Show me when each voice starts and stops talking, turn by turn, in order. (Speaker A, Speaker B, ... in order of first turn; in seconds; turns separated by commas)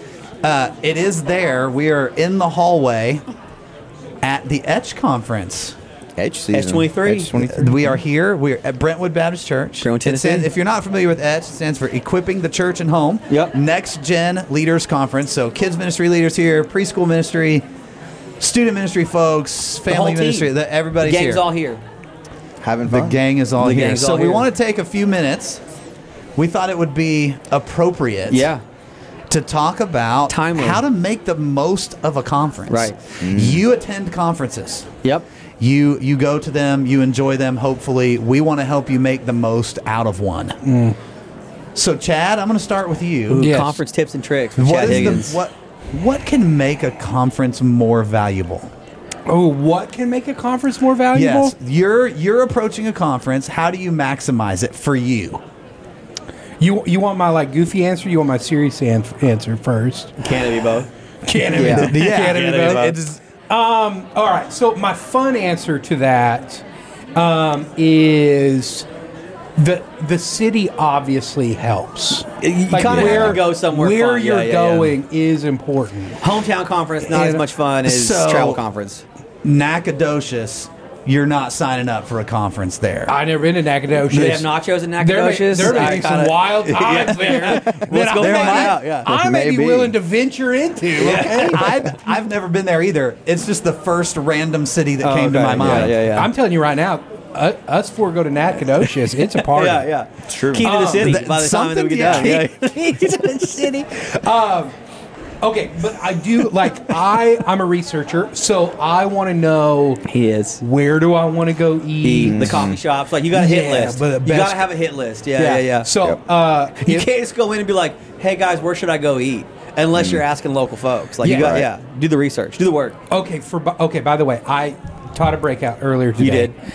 Speaker A: 0.4-3.2, Speaker A: 4.2-5.8, Speaker B: 6.2-7.9, Speaker C: 6.5-7.7, Speaker A: 7.5-17.6, Speaker C: 9.8-10.5, Speaker C: 13.3-13.5, Speaker A: 18.4-21.4, Speaker C: 19.9-21.8, Speaker B: 22.6-23.2, Speaker A: 22.9-25.6, Speaker C: 23.6-24.5, Speaker A: 26.4-28.5, Speaker C: 28.3-28.6, Speaker A: 29.3-34.9, Speaker C: 30.3-30.8, Speaker C: 32.7-33.0, Speaker B: 33.2-33.6, Speaker A: 35.6-40.6, Speaker D: 40.6-41.0, Speaker A: 41.7-43.5, Speaker C: 43.3-45.4, Speaker D: 43.4-43.8, Speaker A: 44.6-48.7, Speaker D: 49.3-51.5, Speaker A: 51.1-55.4, Speaker D: 56.6-60.2, Speaker C: 60.2-60.9, Speaker D: 61.2-62.9, Speaker C: 61.5-63.0, Speaker B: 61.5-61.9, Speaker A: 61.5-63.2, Speaker D: 63.5-66.6, Speaker D: 67.1-68.9, Speaker D: 69.6-76.2, Speaker C: 72.4-75.0, Speaker A: 72.8-73.4, Speaker C: 76.2-79.0, Speaker D: 77.0-77.4, Speaker A: 77.8-78.6, Speaker A: 79.4-83.2, Speaker D: 83.1-91.8, Speaker C: 84.1-89.1, Speaker A: 88.2-88.8, Speaker B: 89.0-89.9, Speaker C: 91.0-91.7, Speaker A: 91.0-96.0, Speaker C: 95.0-96.3, Speaker D: 95.0-95.3, Speaker B: 95.6-95.9, Speaker D: 95.9-99.9, Speaker C: 99.3-103.8, Speaker B: 100.3-100.7, Speaker D: 100.6-101.2, Speaker A: 100.9-102.5, Speaker D: 102.2-104.7, Speaker D: 105.4-110.0, Speaker C: 110.1-110.6, Speaker D: 110.6-112.5, Speaker C: 112.0-115.9, Speaker B: 112.2-112.8, Speaker D: 113.3-114.6, Speaker D: 115.4-117.1, Speaker C: 116.8-123.0, Speaker B: 120.0-120.2, Speaker D: 121.2-121.6, Speaker B: 121.3-121.7, Speaker D: 123.1-126.5, Speaker C: 126.2-126.5